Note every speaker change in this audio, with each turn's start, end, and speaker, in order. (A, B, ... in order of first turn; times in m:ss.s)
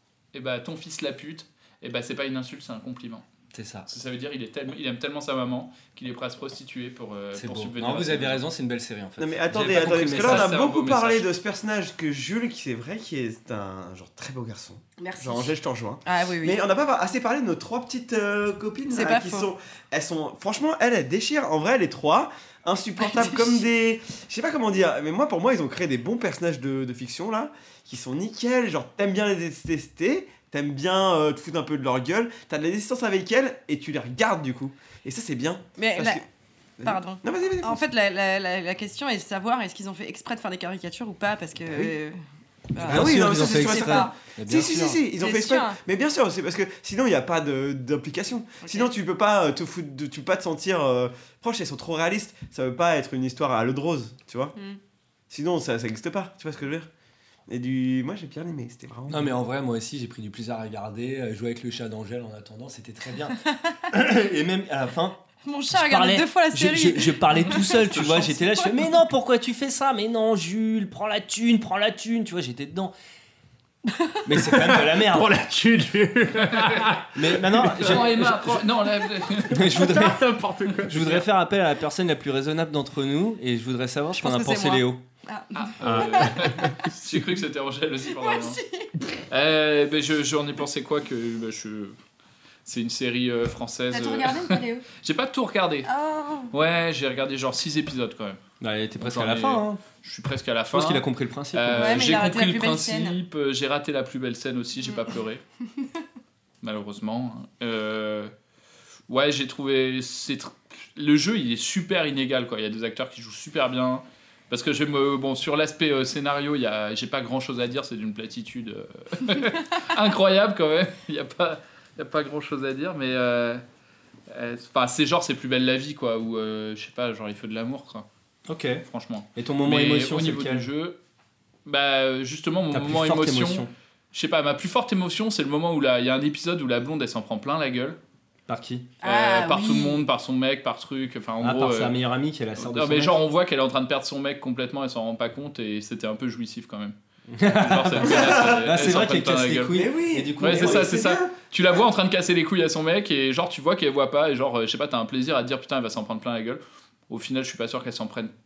0:00.3-0:03.2 A
0:03.5-0:03.9 B
0:03.9-0:08.4 A
0:07.4-0:10.5 B
0:09.2-0:36.2 C
0:10.2-0:11.3 A
0:15.0-0:15.5 D
0:16.0-0:16.6 D
0:18.9-0:19.5 D
0:23.0-0:23.4 D
0:35.8-0:36.2 D
0:36.8-0:37.8 C
0:36.8-0:42.2 D
0:42.7-0:44.1 D
0:42.8-0:54.5 C
0:42.8-0:45.0 B
0:45.2-0:45.8 D
0:48.6-0:48.9 D
0:55.3-0:56.9 C
0:57.5-0:59.3 C
0:59.1-1:03.4 B
1:03.9-1:05.2 B
1:05.4-1:08.1 D
1:05.7-1:12.9 B
1:08.0-1:08.3 A
1:14.2-1:15.3 B
1:14.4-1:18.2 E
1:17.1-1:18.6 B
1:17.8-1:19.6 A
1:19.4-1:20.2 B
1:19.7-1:21.2 E
1:20.9-1:25.0 B
1:24.2-1:26.4 D
1:25.6-1:28.6 A
1:25.8-1:26.7 E
1:28.1-1:28.9 D
1:29.3-1:32.0 A
1:32.6-1:35.9 A
1:33.9-1:34.8 D
1:35.8-1:36.5 D
1:36.5-1:38.4 A
1:38.6-1:39.8 B
1:39.0-1:45.4 A
1:40.7-1:42.2 B
1:41.7-1:43.2 D
1:46.6-1:48.3 A
1:49.1-2:03.6 A
2:04.3-2:08.0 A
2:08.5-2:08.8 B
2:08.9-2:11.0 A
2:09.3-2:10.7 B
2:11.6-2:18.0 A
2:12.7-2:13.7 B
2:18.5-2:18.9 B
2:19.0-2:20.0 D
2:19.0-2:22.0 A
2:21.4-2:23.2 B
2:22.6-2:26.9 A
2:27.3-2:31.0 B
2:27.5-2:29.8 A
2:28.0-2:28.7 C
2:29.7-2:31.4 C
2:30.4-2:38.3 A